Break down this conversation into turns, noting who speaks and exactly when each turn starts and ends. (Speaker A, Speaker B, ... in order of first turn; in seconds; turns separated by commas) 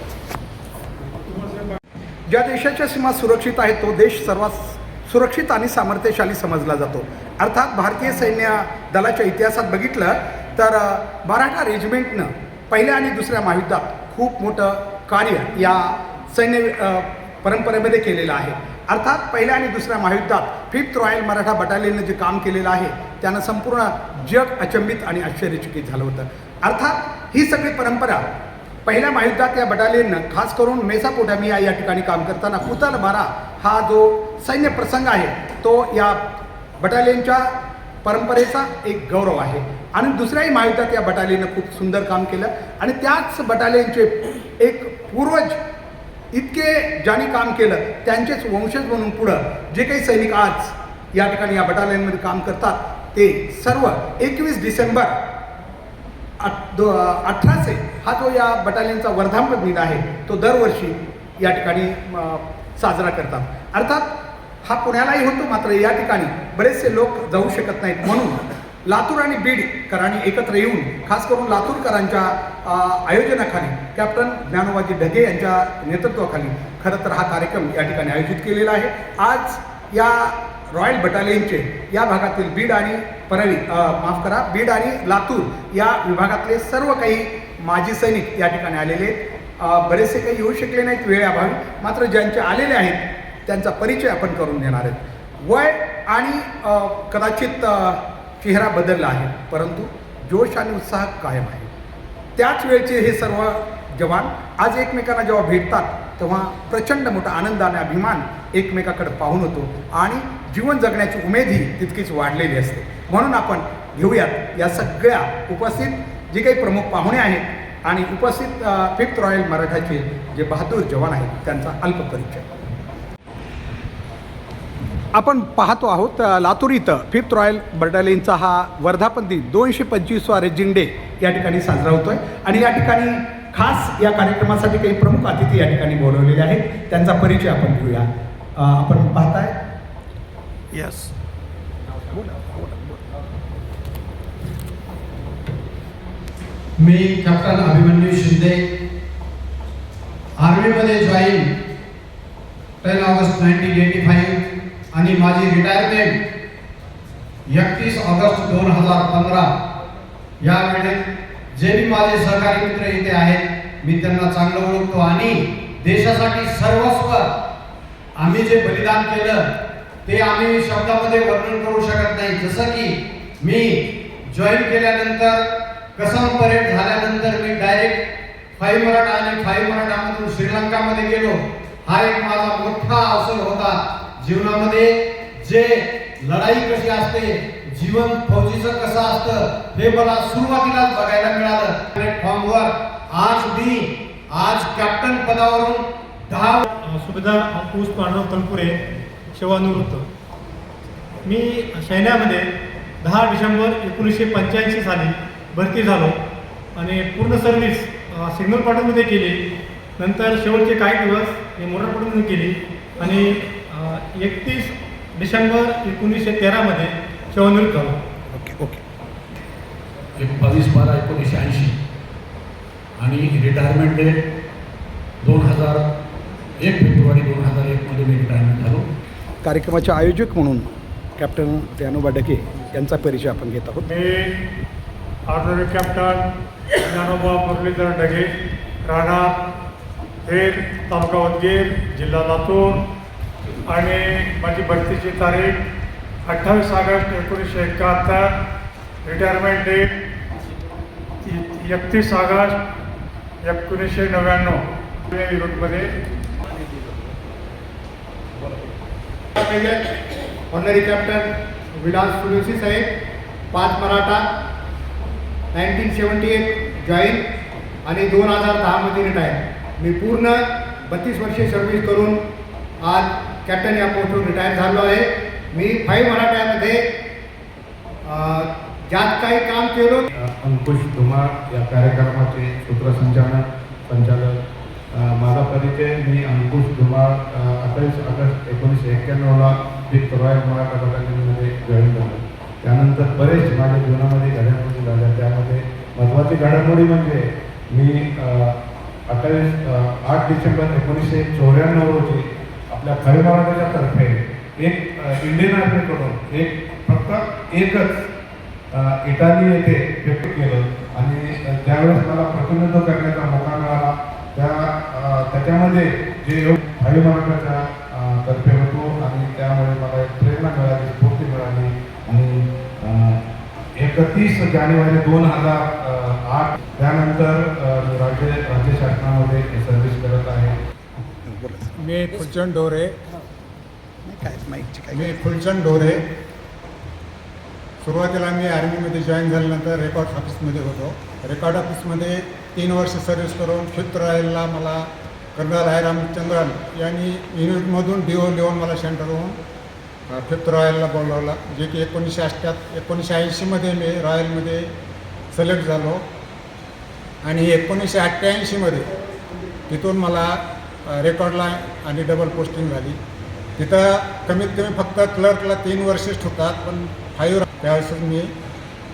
Speaker A: 2.3-28.2, Speaker A: 28.8-36.2, Speaker A: 36.8-37.5, Speaker A: 38.0-45.6, Speaker A: 46.3-55.1, Speaker A: 56.4-64.1, Speaker A: 64.6-101.7, Speaker A: 102.3-122.5, Speaker A: 125.1-139.5, Speaker B: 146.8-148.6, Speaker B: 150.4-151.6, Speaker B: 152.8-156.2, Speaker B: 157.5-159.5, Speaker B: 160.4-167.2, Speaker B: 168.2-169.5, Speaker B: 170.0-175.4, Speaker B: 175.9-196.7, Speaker C: 196.7-198.7, Speaker C: 199.3-200.1, Speaker C: 201.2-202.5, Speaker C: 203.0-206.2, Speaker C: 206.8-209.4, Speaker C: 210.0-218.0, Speaker A: 218.3-218.8, Speaker D: 220.2-221.7, Speaker D: 223.0-224.2, Speaker D: 225.2-225.8, Speaker D: 226.6-228.8, Speaker A: 229.4-233.8, Speaker C: 233.8-234.4, Speaker C: 235.3-236.3, Speaker C: 236.8-238.3, Speaker C: 238.8-239.4, Speaker C: 240.2-242.8, Speaker C: 243.7-245.6, Speaker C: 246.2-248.3, Speaker C: 249.0-249.9, Speaker C: 251.2-252.6, Speaker C: 253.4-255.9, Speaker E: 259.4-259.9, Speaker E: 260.5-262.9, Speaker E: 263.5-264.2, Speaker E: 265.5-267.3, Speaker E: 267.8-272.2, Speaker E: 272.8-276.8, Speaker E: 278.0-280.1, Speaker F: 280.1-284.4, Speaker F: 284.9-308.0, Speaker F: 308.7-323.2, Speaker F: 323.8-330.6, Speaker A: 331.8-332.9, Speaker E: 334.1-335.0, Speaker A: 334.9-336.0, Speaker G: 335.0-335.8, Speaker G: 337.8-344.8, Speaker A: 339.6-340.3, Speaker G: 345.4-349.4, Speaker A: 346.0-346.7, Speaker A: 347.6-349.1, Speaker G: 350.1-354.6, Speaker G: 355.3-356.0, Speaker G: 357.2-358.9, Speaker A: 357.9-358.3, Speaker G: 359.7-360.3, Speaker G: 361.0-362.9, Speaker A: 361.3-362.9, Speaker G: 363.6-368.3, Speaker A: 363.6-365.4, Speaker A: 366.9-368.0